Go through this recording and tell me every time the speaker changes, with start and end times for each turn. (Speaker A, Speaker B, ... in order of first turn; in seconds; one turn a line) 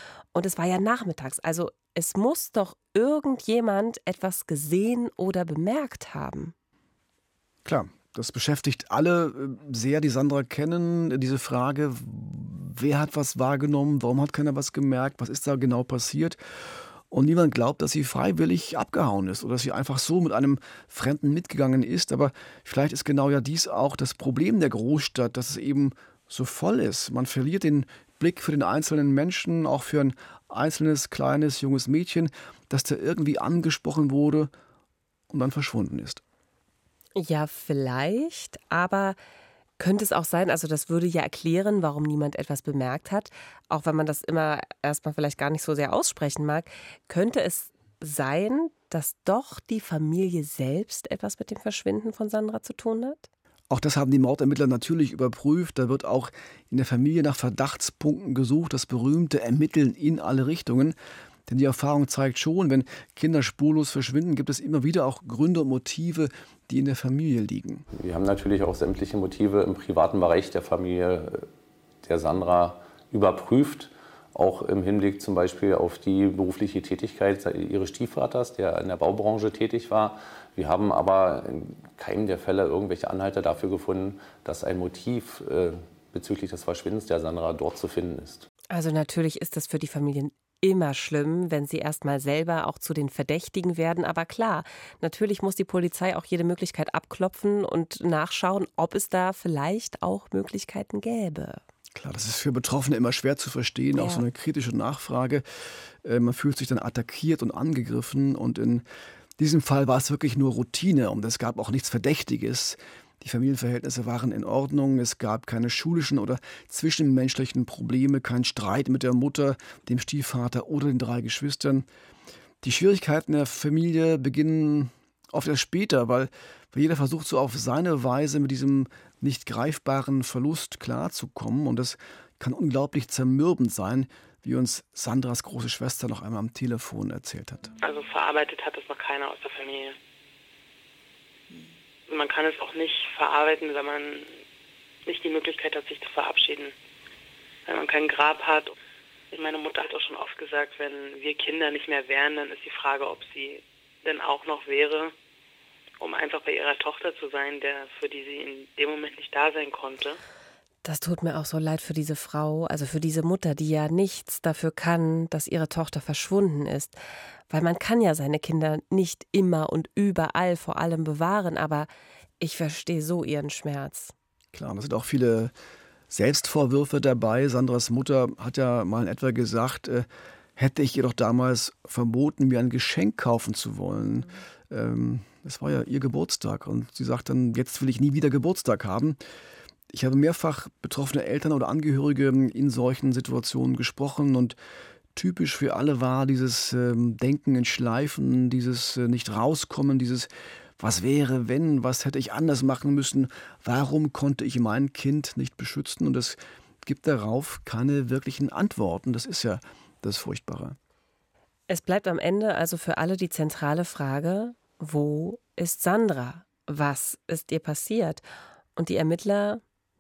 Speaker A: 0.3-6.5
Speaker B: 7.7-16.4
Speaker B: 17.1-34.5
Speaker B: 35.3-36.2
Speaker A: 37.2-39.2
Speaker A: 39.8-53.3
Speaker B: 53.7-61.0
Speaker B: 61.5-67.8
Speaker C: 67.9-71.5
Speaker C: 72.0-88.5
Speaker A: 88.7-101.6
Speaker B: 101.9-105.5
Speaker A: 103.9-104.2
Speaker B: 106.0-108.8
Speaker B: 109.4-121.9
Speaker B: 122.6-137.7
Speaker D: 137.8-140.0
Speaker D: 142.1-144.4
Speaker D: 145.1-146.7
Speaker D: 147.7-148.7
Speaker D: 149.3-155.1
Speaker D: 156.0-160.2
Speaker A: 160.8-167.0
Speaker A: 167.5-171.9
Speaker A: 172.4-174.1
Speaker B: 174.5-175.5
Speaker B: 176.1-189.2
Speaker B: 189.9-194.6
Speaker B: 195.1-210.8
Speaker A: 211.7-218.2
Speaker A: 218.8-219.6